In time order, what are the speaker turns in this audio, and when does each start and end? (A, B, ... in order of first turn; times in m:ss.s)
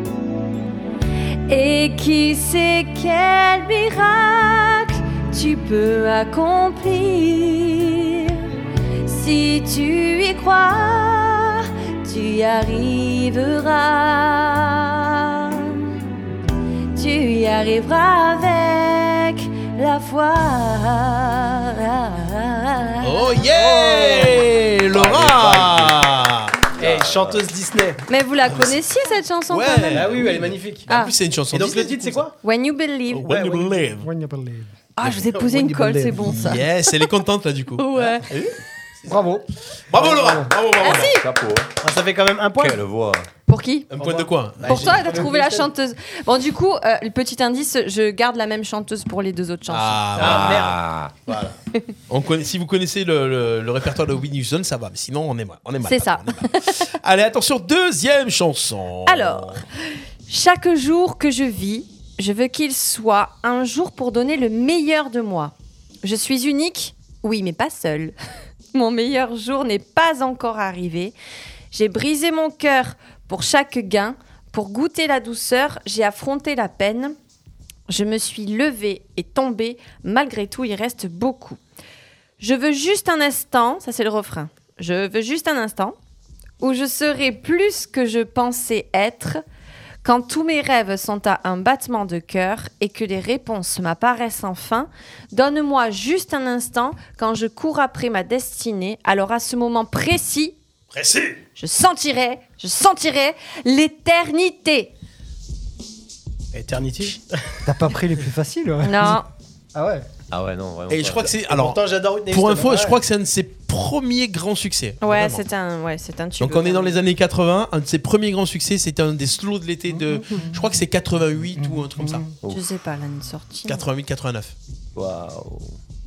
0:01.5-0:08.4 A
0:09.0-0:16.0 A
0:16.9-0:24.4 A
0:23.0-0:26.7 B
0:24.9-0:25.9 C
0:26.8-0:27.4 D
0:26.8-0:28.0 C
0:28.1-0:30.1 A
0:28.4-0:28.8 B
0:29.5-0:32.2 B
0:29.9-0:30.9 C
0:30.9-0:31.1 A
0:31.5-0:32.3 C
0:32.4-0:33.3 A
0:33.1-0:34.1 B
0:33.3-0:33.8 C
0:34.0-0:34.7 E
0:35.0-0:36.9 A
0:35.1-0:36.5 C
0:36.2-0:38.3 B
0:37.8-0:38.2 A
0:39.1-0:39.4 E
0:39.9-0:41.1 B
0:40.0-0:40.5 E
0:40.8-0:41.2 A
0:41.0-0:41.7 D
0:41.8-0:42.8 C
0:42.6-0:43.2 D
0:43.5-0:43.9 A
0:43.9-0:45.0 B
0:44.0-0:45.7 C
0:44.6-0:50.1 A
0:49.7-0:50.7 B
0:50.2-0:50.8 C
0:50.2-0:51.1 D
0:51.3-0:51.5 B
0:52.1-0:59.6 B
0:55.8-0:56.7 A
0:59.0-0:59.6 A
1:00.3-1:08.1 A
1:08.7-1:11.1 A
1:11.7-1:17.2 A
1:17.9-1:21.6 A
1:22.4-1:26.0 A
1:26.6-1:29.4 A
1:30.0-1:40.6 A
1:40.9-1:41.4 B
1:41.6-1:44.9 A
1:46.5-1:47.5 C
1:47.6-1:50.0 E
1:48.8-1:49.2 A
1:50.3-1:51.3 D
1:50.9-1:55.4 B
1:51.5-1:53.0 C
1:55.0-1:57.0 A
1:56.4-2:02.2 B
1:59.9-2:00.5 E
2:01.6-2:02.2 E
2:02.5-2:03.8 A
2:03.7-2:04.5 B
2:04.9-2:05.7 D